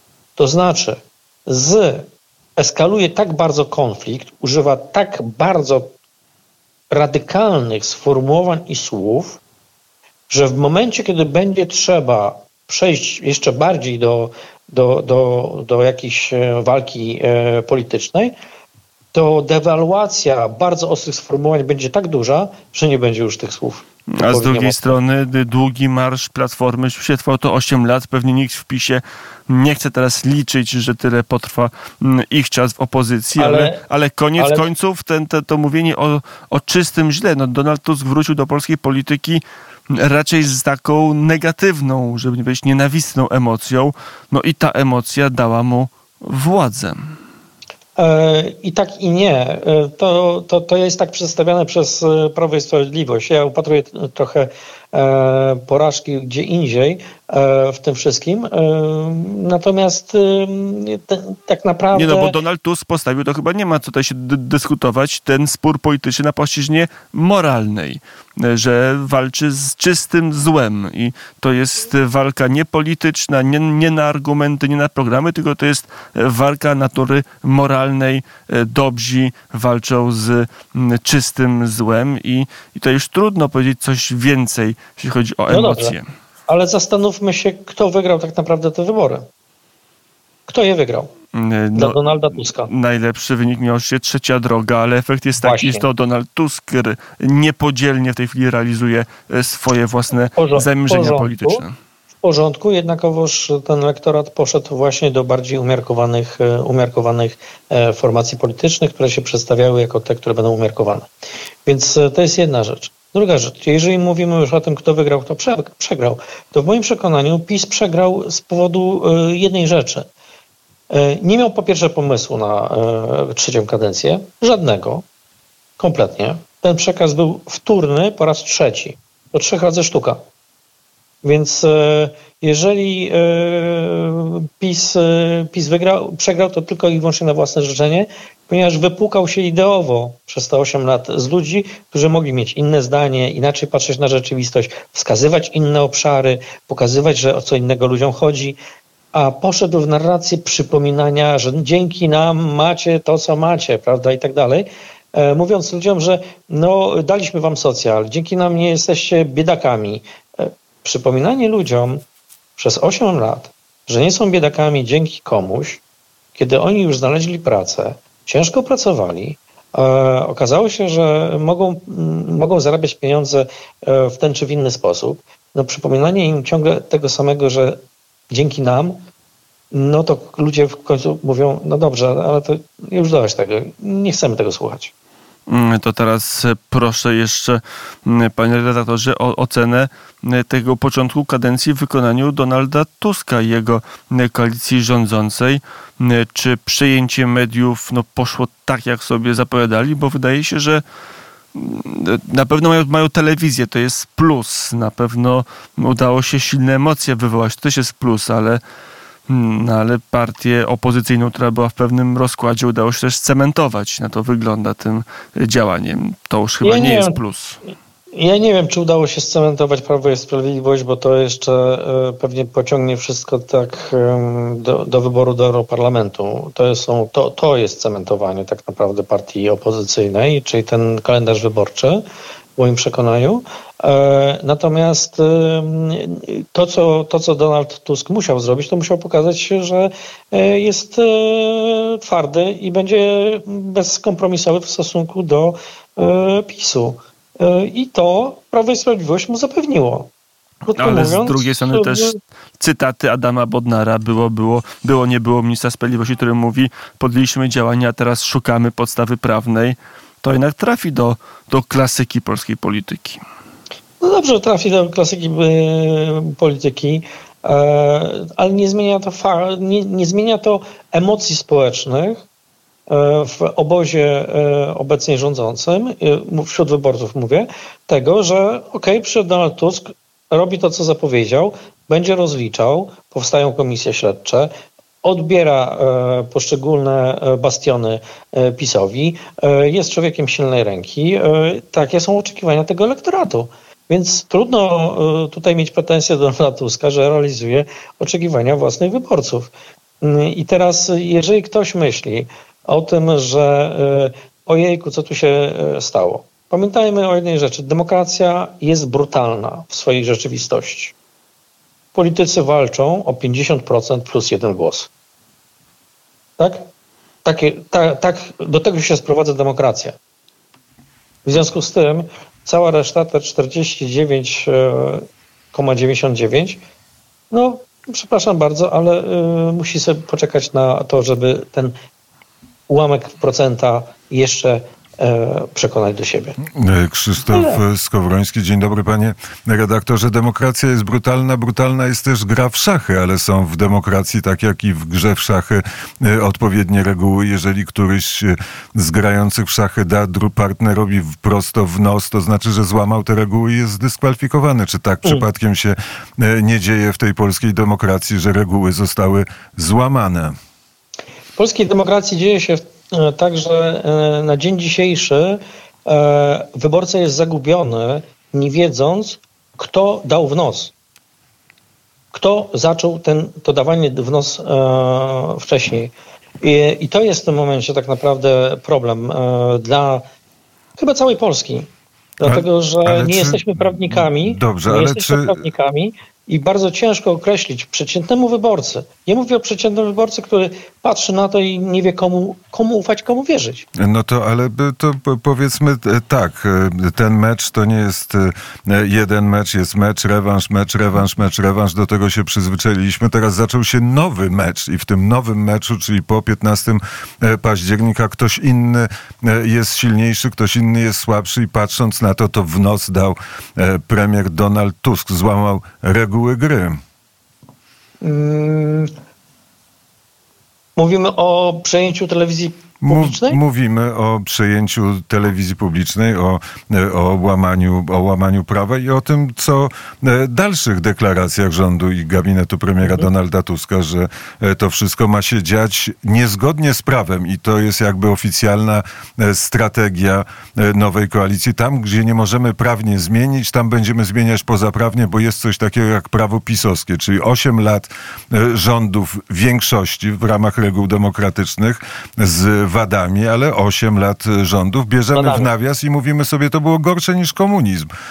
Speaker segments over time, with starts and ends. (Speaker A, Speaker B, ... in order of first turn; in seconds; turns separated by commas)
Speaker A: 0.4-5.9, Speaker A: 6.9-9.4, Speaker A: 10.3-18.3, Speaker A: 19.1-24.9, Speaker B: 24.1-39.4, Speaker A: 33.4-33.8, Speaker A: 34.4-34.7, Speaker B: 39.9-47.0, Speaker A: 48.0-62.3, Speaker B: 61.9-86.0, Speaker A: 85.5-86.0, Speaker A: 86.5-89.2, Speaker A: 90.5-91.1, Speaker B: 91.3-101.7, Speaker A: 91.7-92.7, Speaker A: 95.4-95.8, Speaker A: 100.4-101.6, Speaker A: 102.2-111.1, Speaker A: 111.7-120.1, Speaker A: 120.9-125.0, Speaker A: 125.8-130.2, Speaker A: 131.2-148.6, Speaker A: 149.1-162.0, Speaker A: 162.6-165.8, Speaker A: 166.3-177.8, Speaker A: 178.3-179.0, Speaker A: 179.7-184.9, Speaker B: 185.5-200.8, Speaker B: 201.5-208.6, Speaker B: 209.3-217.6, Speaker A: 216.6-217.2, Speaker A: 218.1-232.0, Speaker A: 232.6-250.1, Speaker A: 250.6-252.2, Speaker B: 250.8-263.2, Speaker A: 264.0-272.2, Speaker A: 272.9-284.5, Speaker A: 285.0-310.9, Speaker A: 311.9-314.9, Speaker A: 316.4-316.7, Speaker A: 317.2-319.9, Speaker A: 321.2-326.6, Speaker A: 327.3-331.7, Speaker A: 332.7-336.4, Speaker C: 336.5-360.3, Speaker A: 337.3-337.6, Speaker A: 361.4-370.7, Speaker A: 372.1-380.0, Speaker A: 380.8-381.7, Speaker A: 382.2-393.6, Speaker C: 382.2-385.4, Speaker C: 393.8-416.8, Speaker A: 418.0-418.9, Speaker A: 420.8-423.4, Speaker C: 422.9-457.9, Speaker A: 432.8-433.1, Speaker A: 455.1-455.5